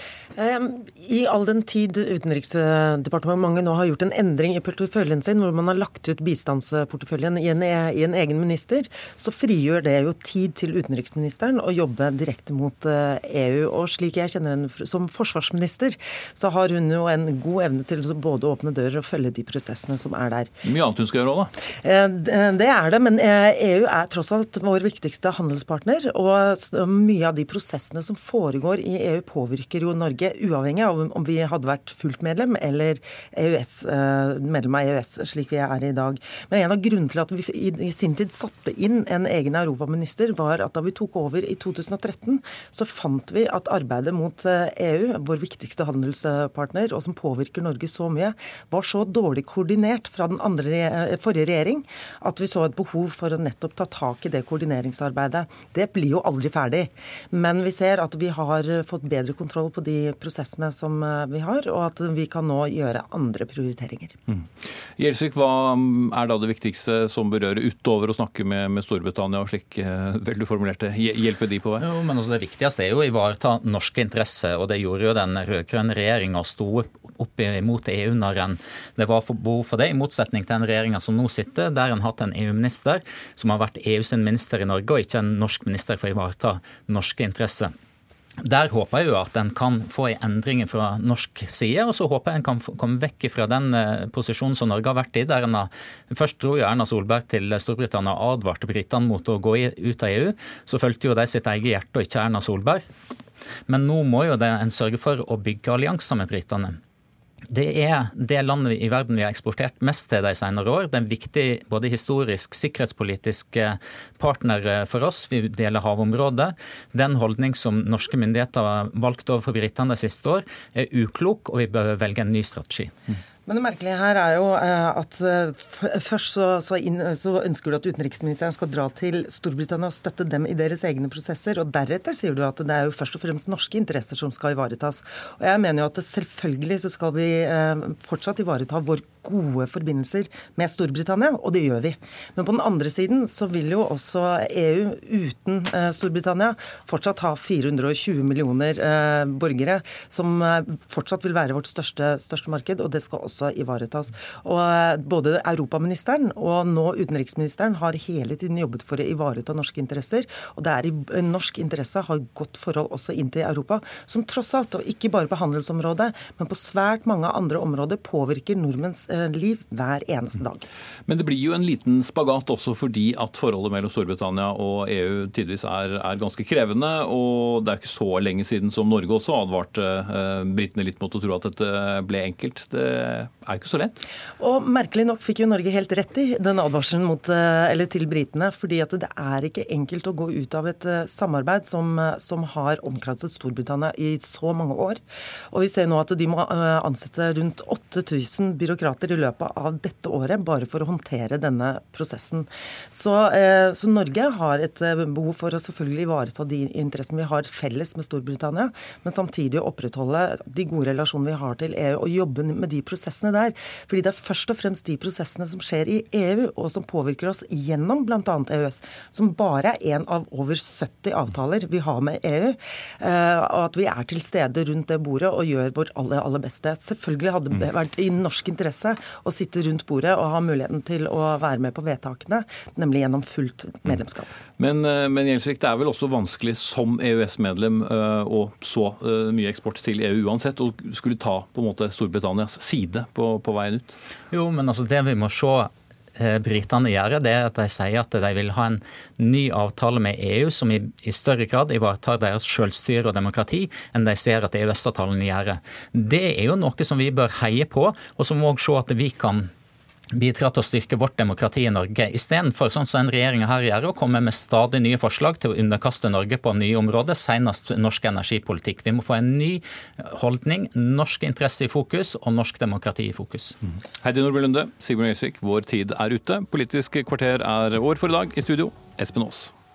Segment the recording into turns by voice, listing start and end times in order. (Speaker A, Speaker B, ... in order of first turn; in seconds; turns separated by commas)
Speaker A: 0.3-20.5, Speaker B: 20.6-21.5, Speaker A: 21.7-64.2, Speaker B: 65.0-71.8, Speaker C: 71.8-87.7, Speaker C: 88.4-102.8, Speaker C: 103.7-106.8, Speaker C: 107.5-122.9, Speaker A: 123.5-170.6, Speaker B: 171.1-184.0, Speaker A: 184.4-234.3, Speaker B: 234.6-244.0, Speaker C: 244.3-259.5, Speaker C: 260.1-273.6, Speaker B: 274.0-279.5